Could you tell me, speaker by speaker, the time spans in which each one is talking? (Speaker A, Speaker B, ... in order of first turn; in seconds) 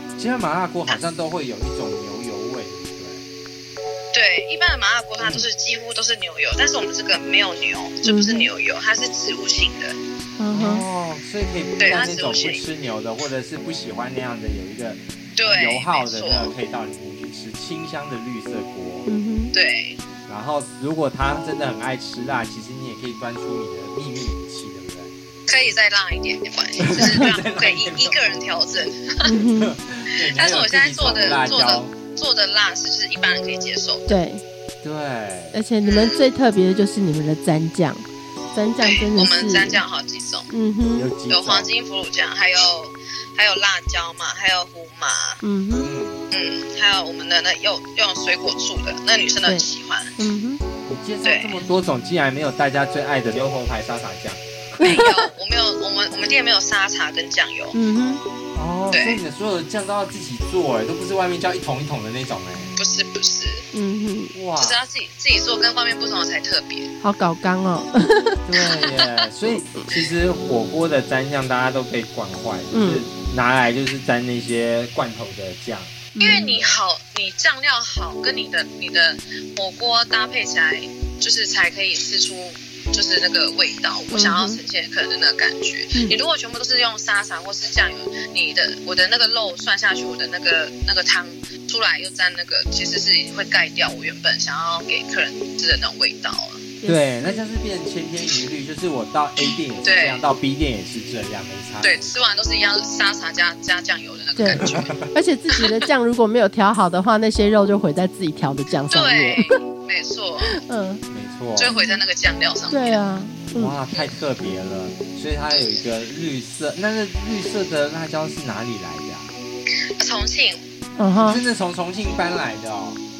Speaker A: 0.1-3.2, 5.2-5.5, 10.5-19.1, 20.3-25.1, 26.8-28.4, 29.6-31.9, 34.8-35.6, 41.0-41.7, 45.8-46.2, 50.9-54.7, 58.5-62.7, 64.3-64.8, 68.4-76.8, 96.8-102.2, 104.4-105.1, 111.1-111.7, 113.5-119.3, 121.2-123.0
Speaker B: 4.1-10.0, 11.8-12.6, 15.4-16.5, 19.5-20.0, 25.5-29.3, 30.2-34.1, 35.8-36.2, 38.8-40.5, 41.3-45.4, 46.3-50.1, 51.2-51.6, 54.8-57.8, 58.9-59.2, 62.8-63.6, 64.6-66.9, 76.2-96.7, 99.8-100.2, 101.8-105.0, 108.9-110.6, 111.5-113.0, 115.5-115.8, 120.0-120.6
Speaker C: 8.0-8.5, 10.4-10.8, 19.0-19.5, 29.2-29.7, 34.1-34.4, 35.5-39.8, 40.5-41.1, 45.4-45.9, 50.2-50.6, 54.8-55.1, 57.7-58.2, 63.7-64.3, 67.0-68.9, 72.7-73.1, 76.1-76.5, 84.1-84.6, 96.8-97.5, 104.3-109.5, 110.5-111.0, 111.6-112.0, 112.7-113.8, 121.0-121.4